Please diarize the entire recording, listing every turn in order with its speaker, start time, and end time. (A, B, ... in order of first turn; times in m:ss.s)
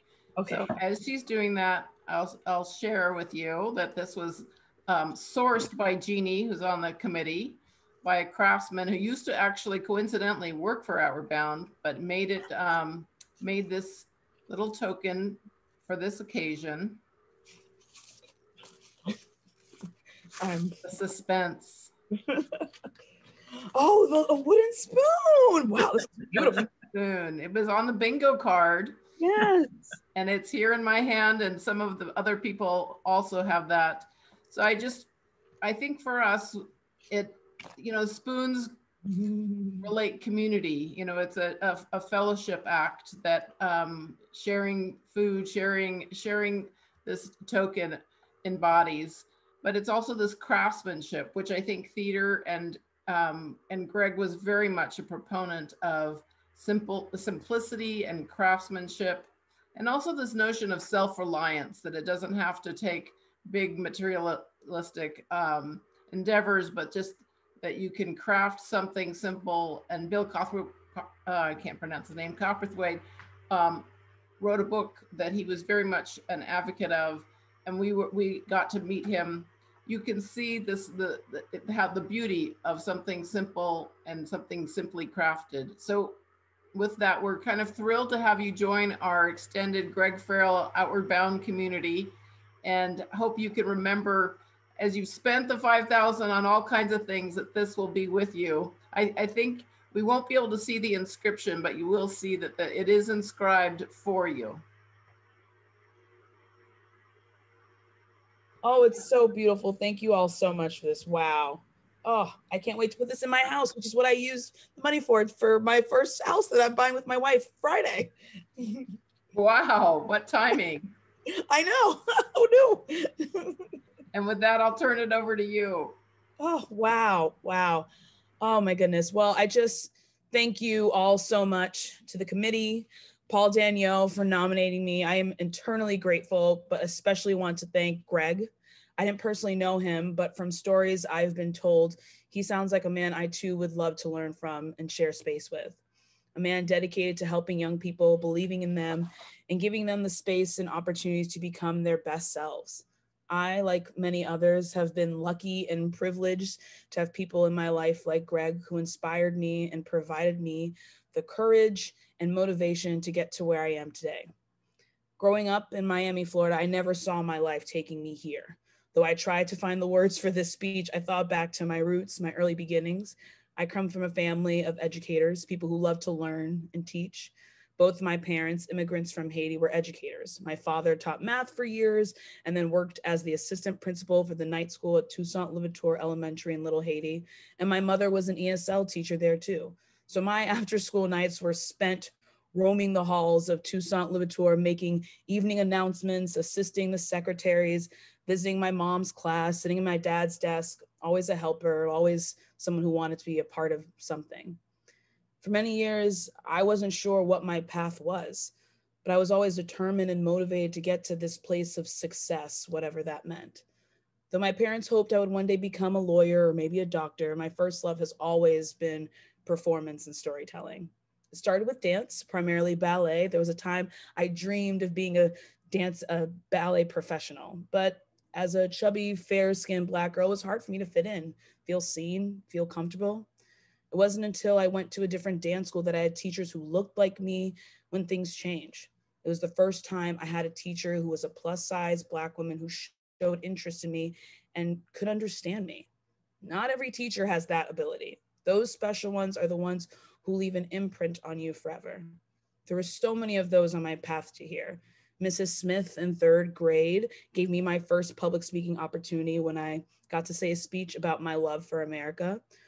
0:00.4-0:00.7 A
0:00.5-0:17.0 B
0:20.4-0:20.8 A
0:20.8-0:21.9 B
0:22.3-0:22.6 A
0:23.7-0:26.7 A
0:26.3-0:29.0 B
0:29.2-0:29.8 A
0:30.1-0:35.1 B
0:35.6-0:38.7 B
0:39.0-0:39.9 A
0:39.8-1:13.9 B
1:14.4-1:26.2 B
1:26.7-1:44.6 B
1:48.6-1:58.9 A
1:59.3-2:00.9 B
2:01.5-2:03.6 A
2:04.1-2:06.0 B
2:06.4-2:07.9 A
2:08.4-2:25.8 A
2:26.3-2:44.3 A
2:45.2-3:24.6 A
3:25.4-3:28.5 A
3:29.0-3:33.6 A
3:34.3-3:53.3 A
3:53.9-4:05.9 A
4:06.4-4:12.2 A
4:12.7-4:22.4 A